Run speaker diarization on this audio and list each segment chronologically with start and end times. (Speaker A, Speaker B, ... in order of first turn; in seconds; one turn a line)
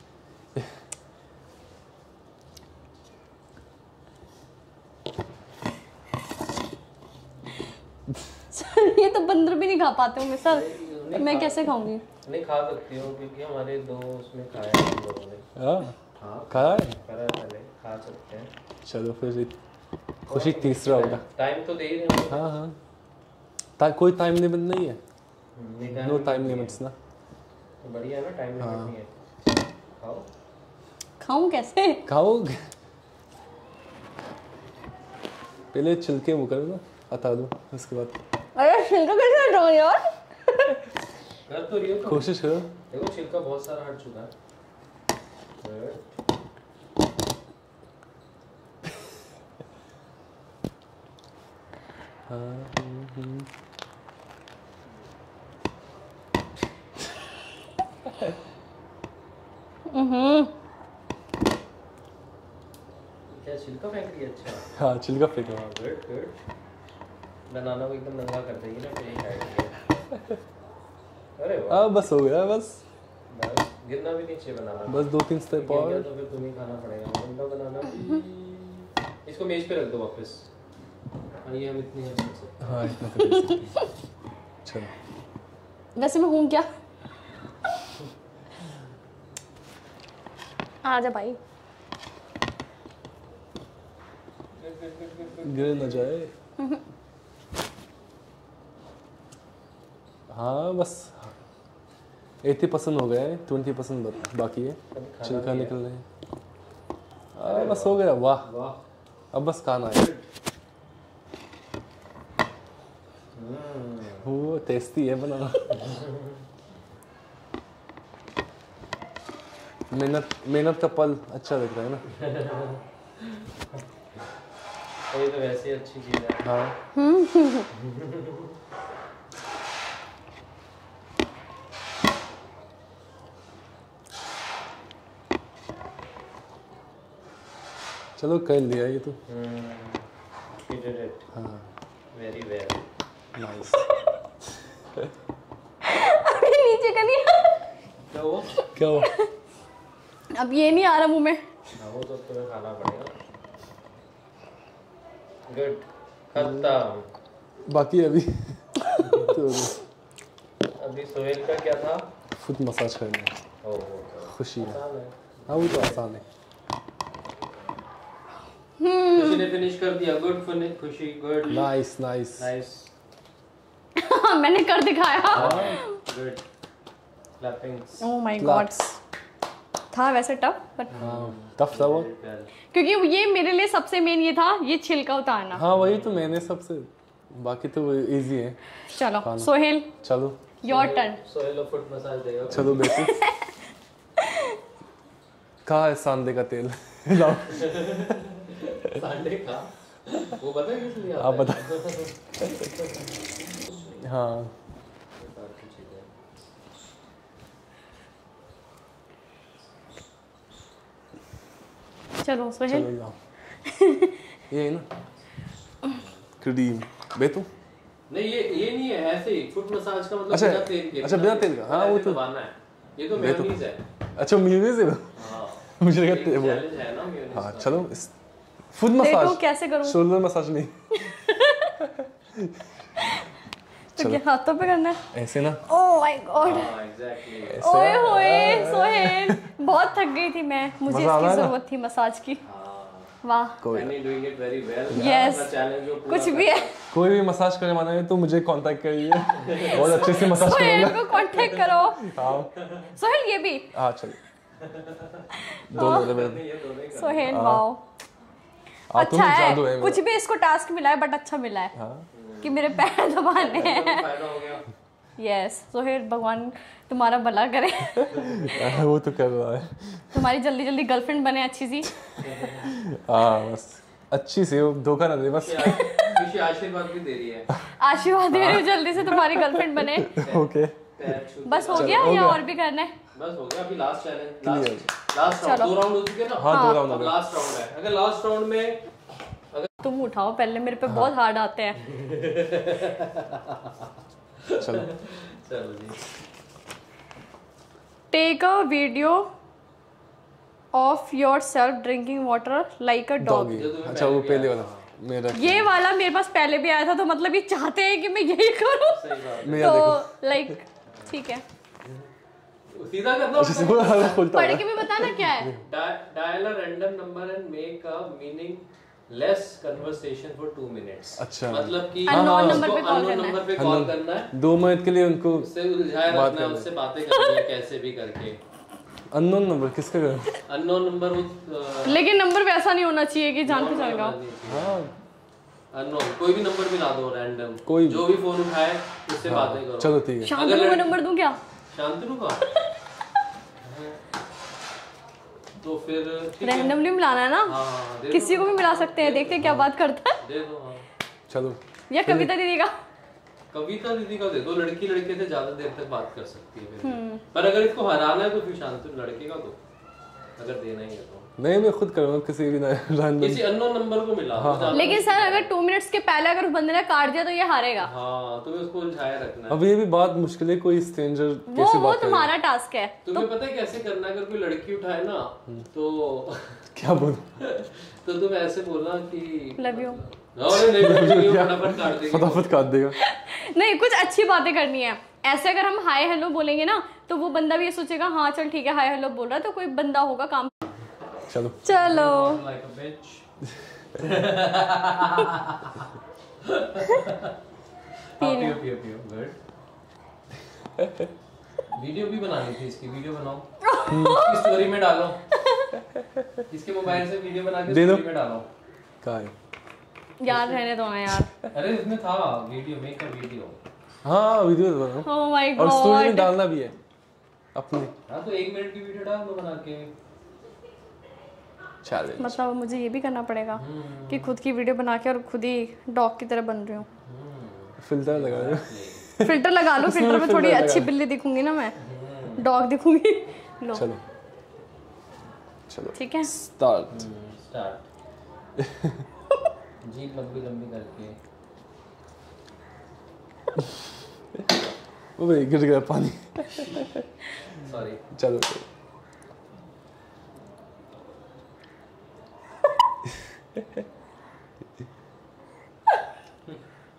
Speaker A: 8.5-12.0
Speaker B: 10.4-11.6
Speaker B: 12.2-15.4
Speaker C: 15.6-15.9
Speaker B: 16.2-18.5
Speaker C: 16.5-17.0
Speaker C: 18.9-19.6
Speaker C: 20.3-21.2
Speaker B: 20.3-22.5
Speaker C: 22.3-22.8
Speaker C: 23.8-25.0
Speaker B: 25.6-26.8
Speaker C: 25.9-27.0
Speaker B: 27.8-29.1
Speaker C: 28.6-28.9
Speaker B: 30.0-30.3
Speaker A: 31.2-32.0
Speaker C: 32.1-32.6
Speaker C: 35.7-38.2
Speaker A: 38.6-40.8
Speaker B: 41.5-42.3
Speaker C: 42.0-42.7
Speaker B: 42.9-44.3
Speaker B: 45.6-46.1
Speaker C: 52.3-53.5
Speaker A: 59.9-60.5
Speaker B: 63.3-64.7
Speaker C: 64.7-65.6
Speaker B: 65.4-66.4
Speaker B: 67.5-69.8
Speaker B: 71.4-71.9
Speaker C: 71.7-72.8
Speaker B: 73.3-80.5
Speaker C: 74.9-76.1
Speaker B: 81.4-83.0
Speaker C: 82.6-83.8
Speaker A: 83.2-83.9
Speaker C: 84.6-84.9
Speaker A: 86.0-86.7
Speaker A: 90.8-91.4
Speaker B: 94.6-96.1
Speaker C: 95.4-96.3
Speaker C: 100.3-101.3
Speaker C: 102.4-106.0
Speaker B: 104.9-105.8
Speaker C: 107.3-108.5
Speaker B: 107.4-108.8
Speaker C: 109.3-110.1
Speaker B: 109.9-110.3
Speaker B: 113.3-114.3
Speaker C: 114.2-115.9
Speaker B: 115.8-116.4
Speaker C: 119.9-122.0
Speaker B: 122.1-122.8
Speaker B: 125.1-126.5
Speaker C: 126.4-126.7
Speaker A: 127.0-127.7
Speaker B: 127.7-128.5
Speaker C: 138.2-139.2
Speaker B: 139.3-140.1
Speaker B: 140.6-141.3
Speaker C: 141.3-141.7
Speaker B: 142.1-142.8
Speaker C: 143.3-143.8
Speaker A: 145.8-147.6
Speaker B: 148.1-148.5
Speaker C: 148.8-149.1
Speaker A: 149.0-149.3
Speaker A: 150.3-151.4
Speaker B: 151.8-153.1
Speaker B: 155.5-157.1
Speaker C: 156.4-156.7
Speaker C: 157.7-159.8
Speaker B: 159.0-159.3
Speaker B: 160.8-162.1
Speaker C: 162.4-163.3
Speaker B: 163.6-166.0
Speaker C: 164.3-164.8
Speaker C: 165.5-166.2
Speaker A: 168.8-169.4
Speaker B: 169.1-171.6
Speaker C: 171.5-172.5
Speaker B: 172.4-172.9
Speaker A: 174.0-175.9
Speaker B: 175.3-176.4
Speaker C: 175.3-175.8
Speaker B: 177.4-178.1
Speaker A: 178.0-178.8
Speaker C: 178.4-179.0
Speaker A: 179.9-180.9
Speaker B: 180.9-182.5
Speaker C: 180.9-182.1
Speaker A: 182.7-185.6
Speaker C: 185.5-188.6
Speaker B: 185.7-186.4
Speaker A: 188.9-189.9
Speaker C: 189.2-190.4
Speaker A: 190.6-191.2
Speaker B: 190.6-192.8
Speaker C: 192.5-193.2
Speaker A: 192.7-193.5
Speaker A: 194.2-194.6
Speaker C: 195.7-198.2
Speaker B: 197.2-204.1
Speaker C: 201.2-201.8
Speaker C: 202.4-202.7
Speaker C: 204.0-204.5
Speaker B: 205.2-206.1
Speaker A: 212.2-212.9
Speaker C: 212.7-213.2
Speaker A: 213.7-214.2
Speaker C: 214.5-214.9
Speaker C: 216.4-217.5
Speaker B: 218.1-223.8
Speaker C: 220.3-222.2
Speaker C: 223.1-223.6
Speaker C: 224.2-226.7
Speaker B: 225.2-227.9
Speaker C: 227.3-228.1
Speaker C: 228.7-231.1
Speaker A: 229.0-230.0
Speaker A: 231.0-231.8
Speaker C: 231.8-232.7
Speaker A: 233.0-233.3
Speaker C: 234.0-234.2
Speaker A: 234.0-235.0
Speaker C: 235.1-235.6
Speaker A: 235.7-236.7
Speaker B: 236.4-237.6
Speaker C: 237.5-239.5
Speaker A: 237.6-242.4
Speaker C: 240.8-241.6
Speaker B: 242.4-243.2
Speaker A: 243.2-243.6
Speaker C: 243.6-244.0
Speaker B: 243.7-246.7
Speaker C: 244.9-245.3
Speaker A: 244.9-245.5
Speaker A: 246.1-246.7
Speaker C: 246.9-251.4
Speaker B: 249.4-250.3
Speaker A: 249.5-252.2
Speaker C: 252.0-252.5
Speaker B: 252.6-252.9
Speaker A: 252.9-253.7
Speaker C: 253.7-254.2
Speaker B: 254.6-257.4
Speaker A: 255.5-256.1
Speaker C: 255.7-256.4
Speaker A: 256.9-257.8
Speaker C: 257.3-257.7
Speaker C: 258.9-260.0
Speaker A: 258.9-261.7
Speaker C: 261.8-262.1
Speaker B: 262.1-262.6
Speaker A: 262.4-264.1
Speaker B: 263.3-264.7
Speaker A: 265.2-268.3
Speaker C: 268.1-270.2
Speaker B: 268.2-268.8
Speaker A: 270.1-271.9
Speaker B: 272.2-272.8
Speaker C: 272.7-276.2
Speaker B: 275.4-277.5
Speaker A: 275.6-276.1
Speaker A: 277.8-280.2
Speaker C: 278.3-280.9
Speaker B: 280.2-282.4
Speaker A: 281.5-282.9
Speaker C: 281.7-282.4
Speaker B: 283.1-288.9
Speaker C: 284.4-284.9
Speaker A: 285.4-285.7
Speaker C: 286.4-287.3
Speaker A: 286.5-286.8
Speaker A: 289.8-291.8
Speaker C: 290.9-291.1
Speaker B: 291.8-293.9
Speaker B: 294.4-296.0
Speaker C: 294.6-294.9
Speaker A: 298.1-299.3
Speaker A: 300.7-303.6
Speaker C: 303.2-305.7
Speaker B: 303.6-304.9
Speaker A: 305.3-309.0
Speaker B: 308.9-309.8
Speaker C: 309.4-310.5
Speaker A: 309.6-311.4
Speaker B: 312.7-314.2
Speaker C: 313.3-315.6
Speaker A: 314.2-315.5
Speaker B: 315.6-324.3
Speaker C: 321.2-322.8
Speaker A: 322.1-323.4
Speaker C: 323.6-325.5
Speaker B: 325.3-328.4
Speaker C: 326.1-326.7
Speaker A: 327.1-327.4
Speaker C: 329.1-330.4
Speaker B: 330.5-332.0
Speaker A: 331.9-334.2
Speaker B: 333.4-334.9
Speaker C: 334.5-334.9
Speaker B: 335.7-341.0
Speaker C: 337.7-338.0
Speaker C: 339.3-340.4
Speaker A: 340.2-341.4
Speaker B: 341.7-342.4
Speaker B: 343.6-344.0
Speaker B: 345.6-346.8
Speaker A: 346.4-347.6
Speaker B: 347.5-349.5
Speaker A: 348.1-350.2
Speaker C: 349.4-349.7
Speaker B: 350.2-350.8
Speaker C: 351.3-352.3
Speaker A: 351.9-352.7
Speaker B: 353.5-359.6
Speaker A: 356.8-357.2
Speaker B: 360.4-361.3
Speaker C: 361.4-363.5
Speaker B: 363.2-365.5
Speaker C: 364.4-364.9
Speaker A: 364.7-367.9
Speaker B: 367.8-369.6
Speaker C: 369.5-372.3
Speaker A: 371.5-373.3
Speaker B: 373.0-376.6
Speaker C: 376.8-377.4
Speaker B: 377.4-382.6
Speaker A: 379.6-380.0
Speaker C: 380.5-383.0
Speaker A: 383.0-390.5
Speaker C: 391.3-391.6
Speaker A: 391.6-392.4
Speaker B: 391.7-393.2
Speaker B: 393.9-395.9
Speaker B: 396.4-397.4
Speaker B: 398.2-399.4
Speaker A: 398.2-398.6
Speaker C: 400.8-401.1
Speaker B: 401.7-403.5
Speaker A: 403.6-404.5
Speaker C: 403.9-404.3
Speaker B: 404.0-405.2
Speaker A: 405.3-405.7
Speaker B: 406.5-408.5
Speaker C: 407.7-408.1
Speaker C: 409.0-409.3
Speaker A: 410.2-411.3
Speaker B: 410.3-410.6
Speaker B: 411.5-413.6
Speaker C: 414.0-416.8
Speaker A: 415.1-416.3
Speaker C: 417.6-417.9
Speaker B: 418.1-419.9
Speaker C: 421.8-422.4
Speaker A: 422.2-426.9
Speaker B: 423.6-424.3
Speaker B: 427.0-429.1
Speaker C: 427.8-430.9
Speaker A: 429.2-431.8
Speaker B: 431.8-432.4
Speaker A: 432.4-433.9
Speaker C: 433.7-434.0
Speaker C: 435.7-437.1
Speaker A: 435.9-436.3
Speaker B: 436.9-437.9
Speaker C: 438.6-439.1
Speaker B: 439.8-441.1
Speaker C: 445.2-447.1
Speaker B: 447.6-448.0
Speaker C: 448.1-448.7